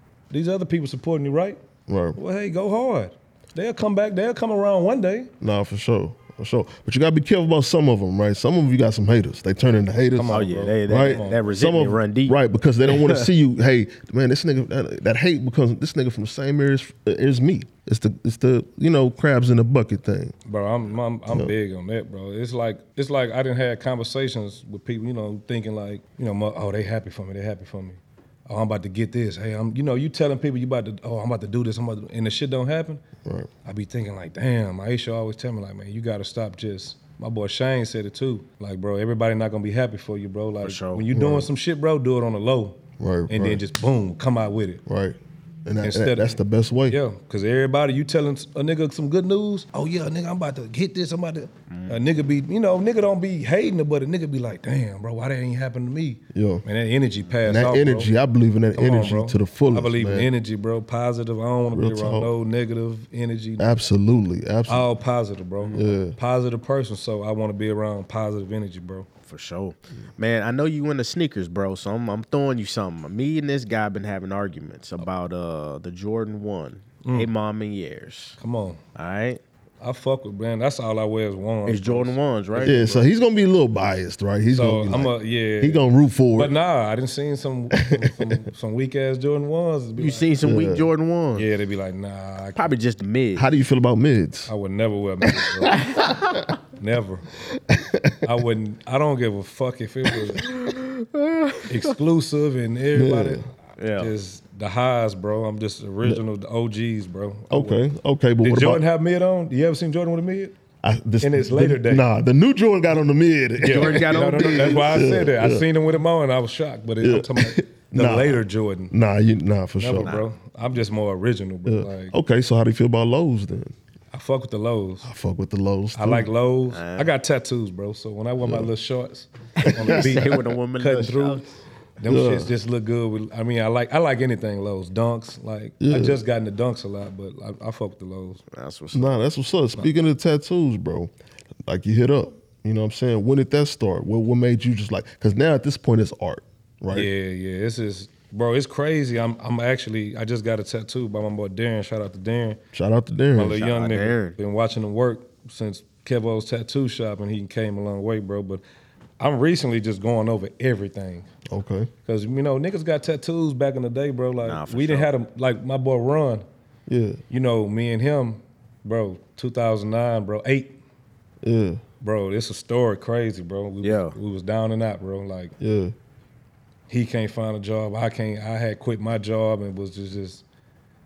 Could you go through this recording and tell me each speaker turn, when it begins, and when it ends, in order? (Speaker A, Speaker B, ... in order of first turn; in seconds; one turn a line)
Speaker A: 0.3-1.6
Speaker B: 1.9-2.2
Speaker A: 2.1-5.3
Speaker B: 5.4-20.4
Speaker A: 10.1-11.4
Speaker C: 10.3-13.3
Speaker A: 20.5-33.0
Speaker A: 33.6-44.8
Speaker C: 40.6-41.0
Speaker B: 41.1-41.5
Speaker B: 43.0-43.6
Speaker B: 44.9-47.0
Speaker A: 45.8-46.4
Speaker A: 46.9-58.1
Speaker C: 51.7-52.0
Speaker B: 56.3-56.6
Speaker B: 57.5-60.3
Speaker A: 58.8-63.7
Speaker B: 61.7-62.3
Speaker B: 63.6-64.9
Speaker A: 64.7-69.1
Speaker B: 65.7-66.2
Speaker C: 69.3-78.4
Speaker A: 77.0-77.3
Speaker A: 78.4-78.8
Speaker C: 79.0-79.4
Speaker A: 79.8-82.8
Speaker C: 81.7-83.1
Speaker B: 82.6-86.5
Speaker A: 84.5-90.3
Speaker B: 87.9-88.3
Speaker C: 90.0-91.5
Speaker B: 90.4-90.9
Speaker A: 91.3-92.7
Speaker C: 92.6-93.5
Speaker B: 93.4-94.5
Speaker A: 94.5-95.8
Speaker B: 95.2-96.5
Speaker C: 95.7-96.5
Speaker A: 96.8-97.3
Speaker B: 97.5-98.3
Speaker A: 98.2-100.5
Speaker B: 100.4-100.8
Speaker C: 100.6-102.0
Speaker A: 101.7-107.8
Speaker B: 102.9-103.4
Speaker C: 103.8-104.1
Speaker B: 107.5-108.8
Speaker A: 108.4-110.5
Speaker B: 110.8-115.7
Speaker A: 111.2-112.0
Speaker A: 113.6-118.9
Speaker C: 113.7-115.0
Speaker B: 117.0-120.2
Speaker A: 119.8-122.2
Speaker B: 121.7-123.7
Speaker A: 124.1-125.1
Speaker B: 125.0-126.3
Speaker A: 126.0-131.4
Speaker C: 126.7-127.1
Speaker B: 128.4-128.7
Speaker C: 129.6-131.5
Speaker B: 129.6-130.4
Speaker A: 132.0-138.4
Speaker B: 132.1-132.5
Speaker B: 135.8-136.2
Speaker C: 138.5-139.1
Speaker B: 138.9-141.1
Speaker B: 141.7-147.1
Speaker A: 146.9-152.6
Speaker B: 152.7-153.7
Speaker A: 153.3-158.6
Speaker C: 153.5-154.4
Speaker A: 159.2-161.3
Speaker B: 161.5-161.9
Speaker A: 162.1-166.4
Speaker C: 164.4-165.1
Speaker B: 166.9-167.2
Speaker A: 167.3-170.8
Speaker B: 171.4-171.8
Speaker A: 172.0-175.5
Speaker C: 173.8-174.2
Speaker B: 175.6-175.9
Speaker A: 176.9-180.4